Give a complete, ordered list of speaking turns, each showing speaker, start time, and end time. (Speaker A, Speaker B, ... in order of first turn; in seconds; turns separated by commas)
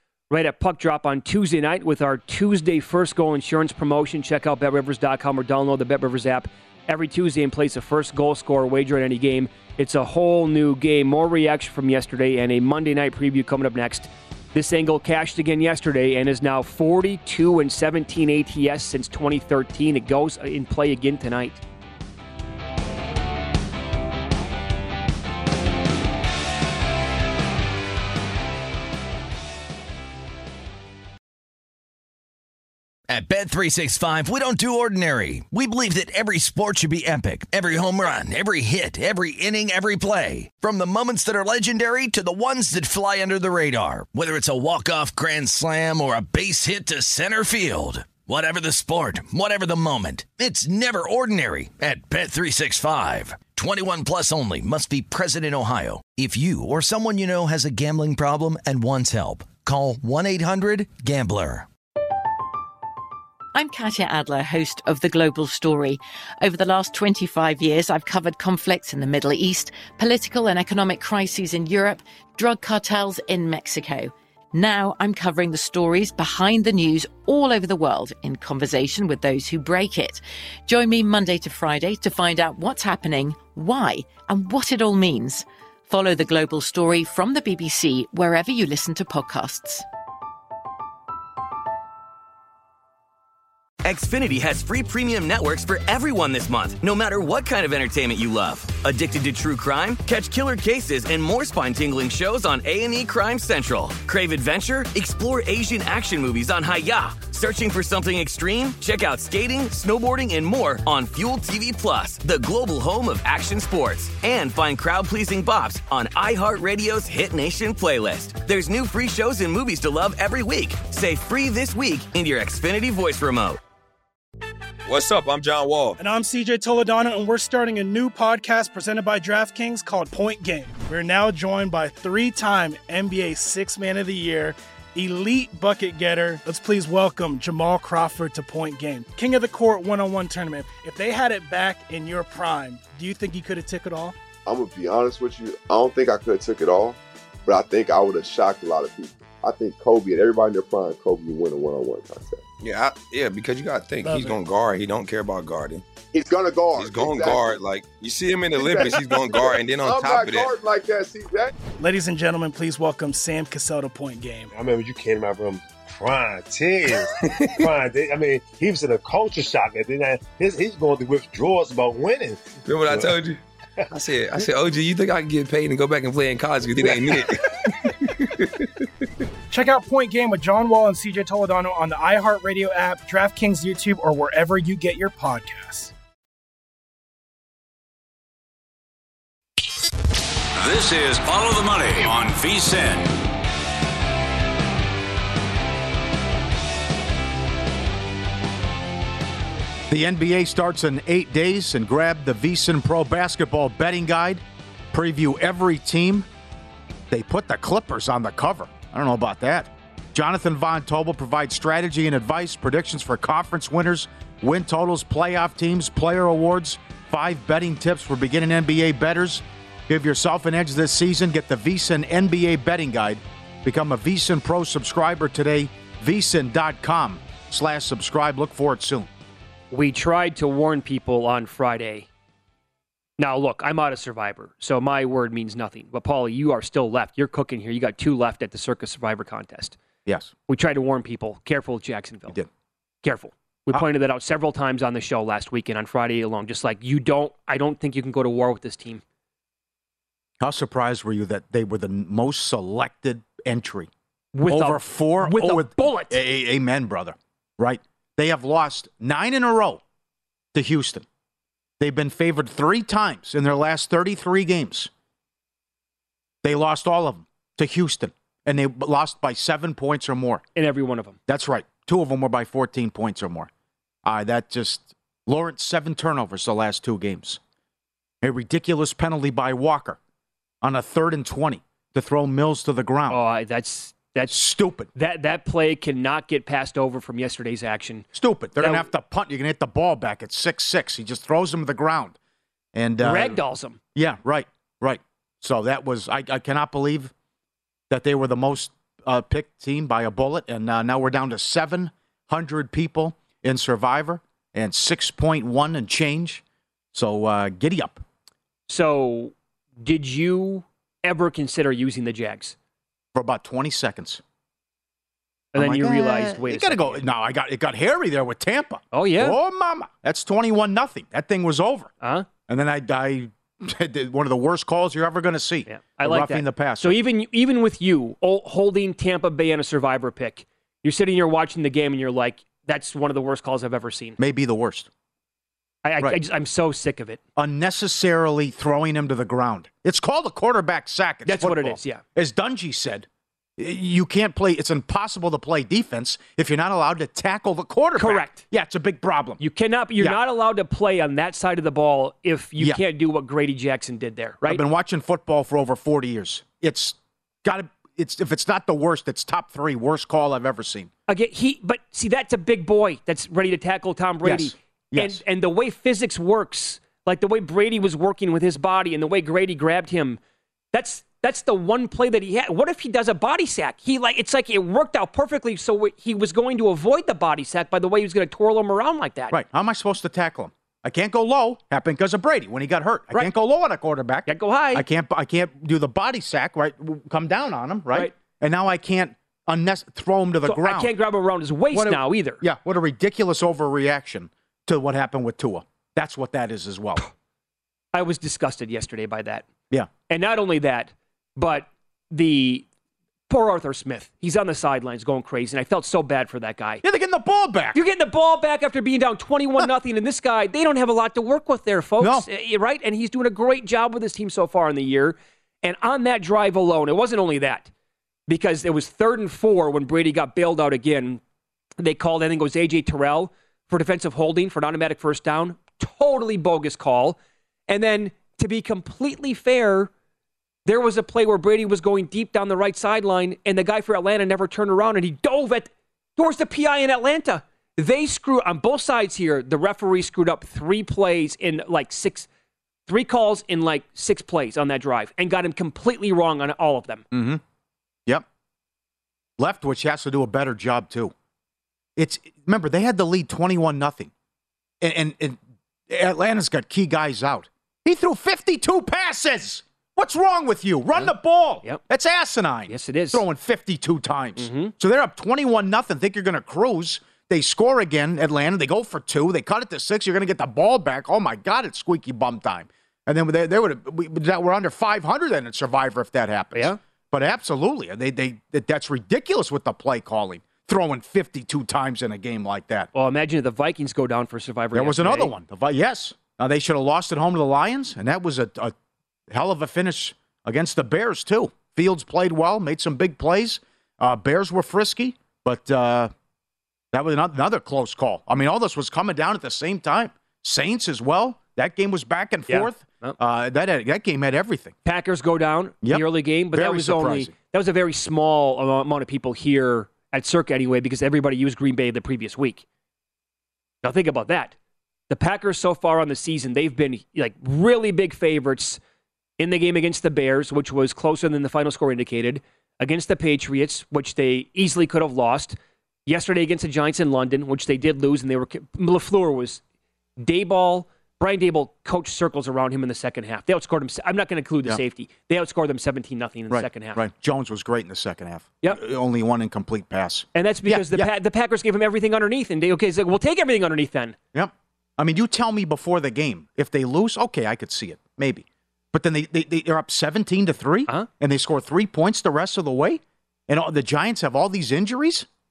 Speaker A: 0.3-21.6, Speaker B: 33.1-61.7, Speaker C: 63.5-89.8, Speaker D: 93.8-123.6, Speaker E: 124.8-126.0, Speaker F: 126.0-144.1, Speaker G: 144.4-152.4, Speaker E: 152.6-155.8, Speaker F: 154.1-154.3, Speaker G: 156.1-157.5, Speaker E: 156.8-160.5, Speaker G: 158.6-161.5, Speaker F: 161.8-164.5, Speaker H: 164.5-173.2, Speaker E: 172.6-173.4, Speaker E: 173.9-178.7, Speaker H: 176.8-177.2, Speaker F: 179.5-185.9, Speaker I: 190.6-193.2, Speaker J: 199.9-206.3, Speaker J: 207.1-229.1, Speaker A: 229.7-232.1, Speaker A: 233.2-239.8, Speaker J: 240.1-240.3, Speaker A: 240.5-242.4, Speaker A: 243.0-249.0, Speaker J: 250.4-253.9, Speaker A: 254.3-256.2, Speaker J: 254.5-259.8, Speaker J: 260.5-261.0, Speaker J: 261.8-264.9, Speaker J: 266.4-270.4, Speaker A: 270.5-271.2, Speaker J: 271.3-273.5, Speaker J: 274.0-277.4, Speaker J: 278.2-280.0, Speaker J: 280.6-283.2, Speaker A: 283.1-288.9, Speaker J: 284.3-284.9, Speaker J: 288.1-292.1, Speaker J: 292.7-293.4, Speaker A: 293.0-293.8, Speaker J: 293.9-297.1, Speaker J: 297.9-306.4, Speaker J: 306.9-308.0, Speaker A: 308.7-312.6, Speaker J: 313.1-314.2, Speaker A: 315.5-317.0, Speaker J: 315.5-321.9, Speaker A: 318.9-319.4, Speaker A: 322.0-322.3, Speaker J: 322.5-327.0, Speaker A: 325.7-334.2, Speaker J: 334.2-334.9, Speaker A: 335.8-337.2, Speaker J: 337.4-349.4, Speaker A: 341.2-342.0, Speaker A: 348.0-348.4, Speaker A: 349.4-354.6, Speaker J: 354.4-360.9, Speaker A: 361.1-370.2, Speaker J: 364.2-365.2, Speaker A: 370.7-379.4, Speaker J: 379.3-390.9, Speaker A: 384.2-384.8, Speaker A: 390.4-392.4, Speaker J: 391.7-397.0, Speaker A: 397.9-399.4, Speaker A: 400.1-402.6, Speaker A: 403.3-406.8, Speaker J: 406.8-407.8, Speaker A: 407.7-417.7, Speaker J: 412.0-412.3, Speaker A: 418.3-421.2, Speaker A: 421.8-429.9, Speaker A: 430.6-442.3, Speaker A: 442.9-447.0, Speaker J: 447.1-447.4, Speaker J: 449.4-451.1, Speaker J: 451.9-454.1, Speaker J: 454.8-482.9, Speaker A: 462.7-463.2, Speaker A: 464.4-464.7, Speaker A: 482.9-485.3, Speaker J: 484.7-488.7, Speaker J: 489.3-496.1, Speaker J: 496.9-504.7, Speaker A: 502.5-503.2, Speaker A: 504.8-512.6, Speaker J: 505.8-507.3, Speaker A: 513.8-514.5, Speaker A: 515.1-518.8, Speaker A: 519.4-529.6, Speaker A: 530.2-537.0, Speaker J: 536.5-541.1, Speaker A: 540.3-544.2, Speaker J: 544.3-555.3